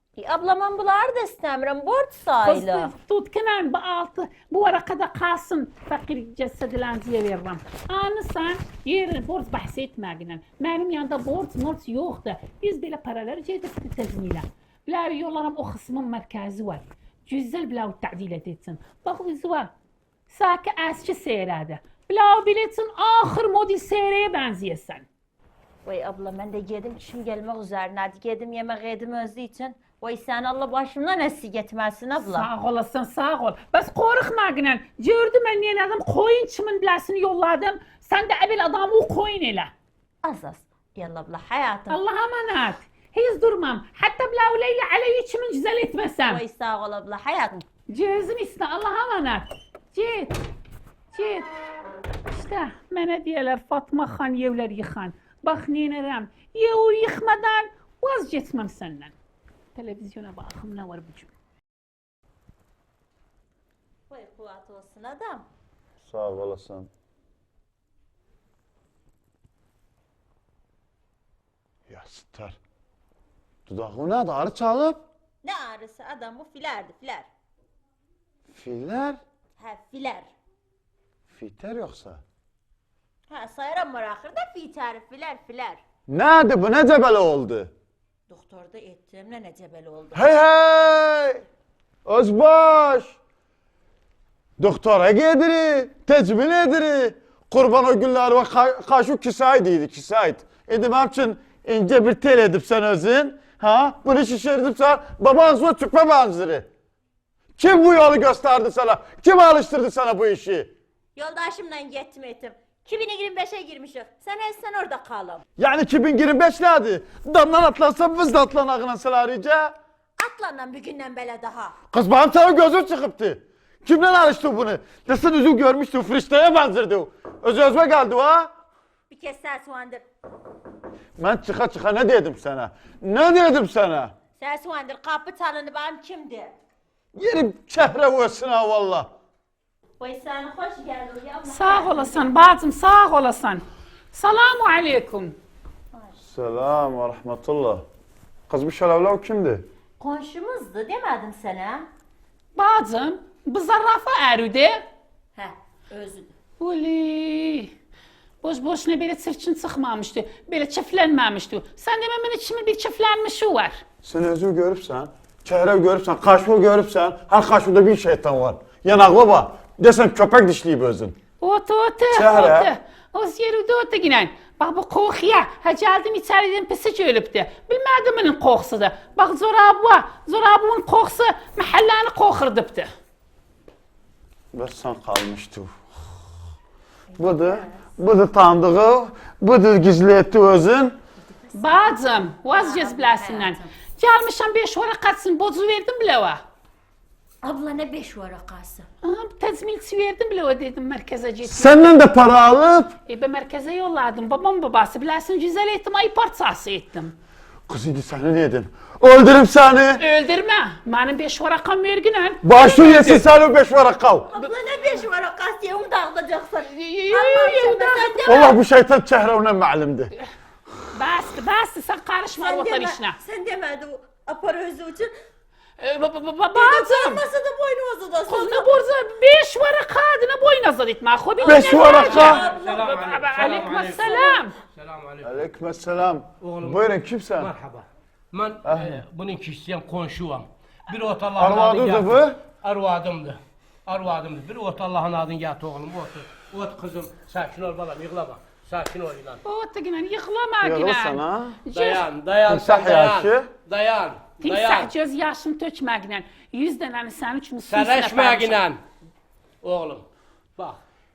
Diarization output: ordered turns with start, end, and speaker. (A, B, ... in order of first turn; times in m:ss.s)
0:00.2-0:02.9 A
0:02.4-0:19.7 B
0:20.3-0:25.1 B
0:25.8-0:32.5 A
0:32.2-0:39.7 B
0:40.2-0:42.0 A
0:41.9-0:46.4 B
0:46.2-0:47.6 A
0:47.9-0:50.4 B
0:51.1-0:51.5 B
0:52.3-0:59.1 B
0:59.8-1:01.3 B
1:04.1-1:05.5 A
1:06.0-1:06.9 C
1:11.9-1:12.6 C
1:13.7-1:15.0 C
1:15.4-1:17.3 A
1:18.5-1:19.2 C
1:19.6-1:20.3 A
1:21.3-1:22.2 C
1:23.3-1:25.8 A
1:26.1-1:27.7 C
1:28.3-1:30.2 A
1:30.1-1:31.4 C
1:32.0-1:33.2 C
1:34.6-1:46.7 C
1:47.6-1:50.7 C
1:51.2-1:55.4 A
1:55.6-1:59.8 C
2:00.2-2:01.8 A
2:01.9-2:08.5 C
2:09.1-2:10.0 A
2:11.2-2:14.1 C
2:14.4-2:16.5 A
2:17.2-2:19.1 C
2:20.0-2:22.3 A
2:21.5-2:25.4 B
2:26.2-2:27.8 C
2:28.5-2:29.6 C
2:30.0-2:31.9 A
2:32.6-2:34.8 B
2:35.4-2:36.3 A
2:36.6-2:37.7 B
2:38.4-2:43.8 B
2:44.0-2:51.2 C
2:51.4-3:02.9 B
2:52.1-2:52.7 C
3:04.5-3:05.8 C
3:07.1-3:07.8 A
3:07.2-3:11.0 C
3:11.2-3:12.0 A
3:11.6-3:16.4 B
3:12.5-3:13.7 A
3:17.4-3:18.9 A
3:19.0-3:21.9 B
3:21.4-3:23.0 C
3:23.1-3:27.2 B
3:27.7-3:30.0 C
3:30.0-3:33.2 B
3:32.4-3:34.3 C
3:34.3-3:38.6 A
3:36.7-3:38.4 B
3:38.3-3:40.1 C
3:40.9-3:43.2 B
3:42.4-3:45.1 A
3:45.8-3:47.2 B
3:46.5-3:48.8 A
3:48.3-3:54.6 B
3:51.4-3:52.4 C
3:51.5-3:52.8 A
3:51.9-3:55.4 D
3:55.2-3:57.5 C
3:56.4-3:56.8 D
3:57.4-4:09.4 D
3:58.6-3:59.0 C
4:01.4-4:02.4 C
4:09.4-4:12.0 B
4:10.6-4:11.6 C
4:11.7-4:14.9 D
4:12.5-4:13.5 C
4:14.4-4:18.6 B
4:17.7-4:18.8 D
4:19.6-4:20.0 D